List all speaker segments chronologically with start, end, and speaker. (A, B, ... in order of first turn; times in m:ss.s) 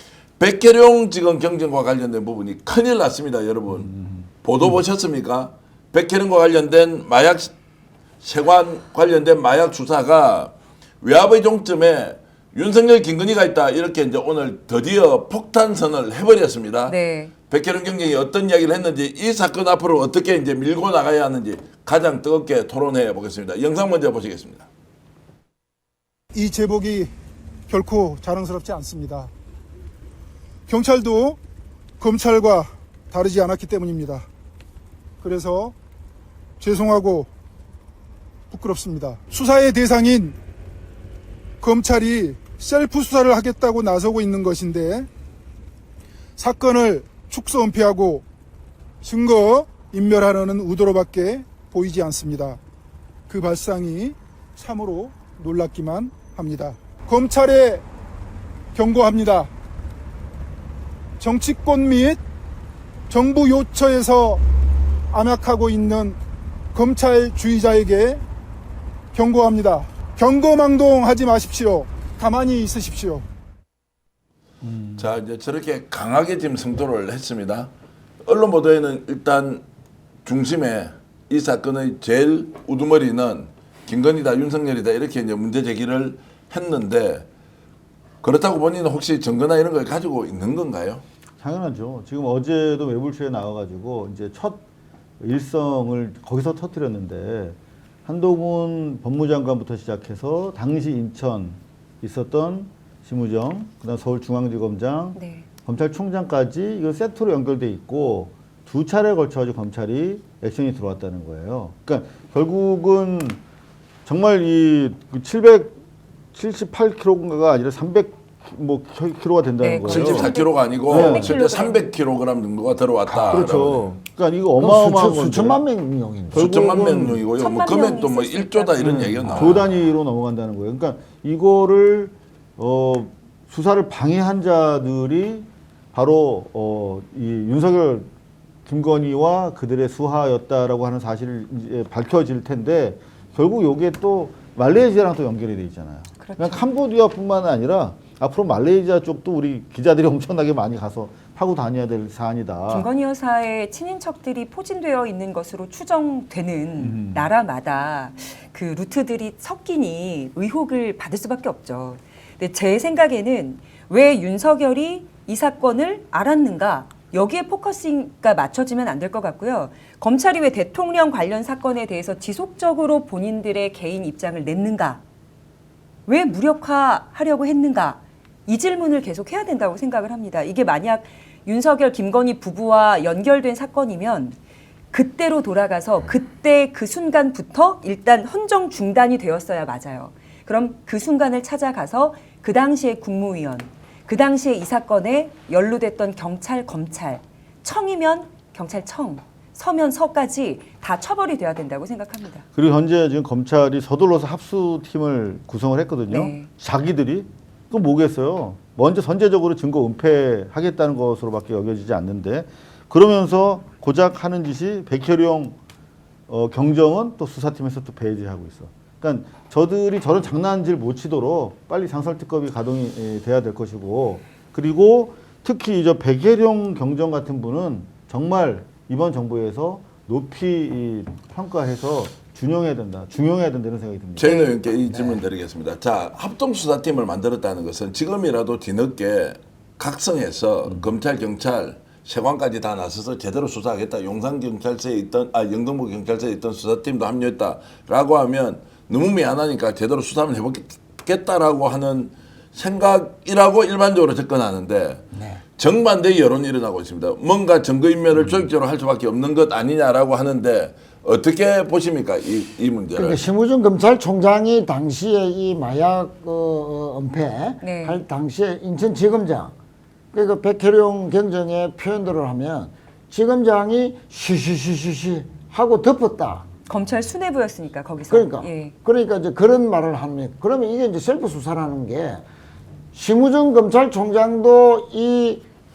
0:00.4-0:03.9 A
0:03.8-0:04.8 B
0:04.4-0:07.5 A
0:08.2-0:16.9 A
0:16.9-0:17.3 C
0:17.5-0:24.7 A
0:26.3-0:27.1 D
0:27.7-0:29.3 D
0:30.7-0:31.4 D
0:32.0-0:34.2 D
0:35.2-0:35.7 D
0:36.6-0:37.3 D
0:38.5-0:40.4 D
0:41.6-0:45.1 D
0:46.4-0:48.2 D
0:49.0-0:52.6 D
0:53.3-0:57.8 D
0:58.7-0:59.5 D
1:01.2-1:02.2 D
1:03.1-1:04.4 D
1:05.1-1:06.2 D
1:06.7-1:08.2 D
1:09.1-1:13.2 D
1:14.6-1:15.1 B
1:15.0-1:17.7 A
1:18.2-1:19.6 A
1:20.2-1:27.3 A
1:28.2-1:31.0 A
1:31.4-1:34.6 B
1:35.2-1:53.4 B
1:45.2-1:45.4 C
1:54.0-1:55.8 B
1:56.3-2:00.3 B
1:59.6-2:01.9 C
1:59.9-2:03.8 A
2:00.9-2:01.3 B
2:03.2-2:05.6 B
2:04.6-2:06.5 E
2:06.3-2:07.2 B
2:06.3-2:09.7 A
2:07.4-2:09.5 C
2:08.8-2:18.1 B
2:18.6-2:32.9 B
2:26.2-2:26.6 C
2:32.7-2:55.0 C
2:36.8-2:37.3 B
2:56.1-3:04.4 C
3:04.9-3:22.4 C
3:22.5-3:35.6 B
3:26.1-3:26.5 C
3:36.3-3:55.2 B
3:54.2-4:15.0 A
3:54.2-3:54.5 C
4:15.1-4:15.4 E
4:15.6-4:23.2 A
4:18.2-4:18.5 B
4:22.9-4:29.5 E
4:27.6-4:28.0 C
4:30.1-4:36.5 E
4:36.7-4:38.7 C
4:38.0-4:42.2 E
4:42.9-4:45.4 E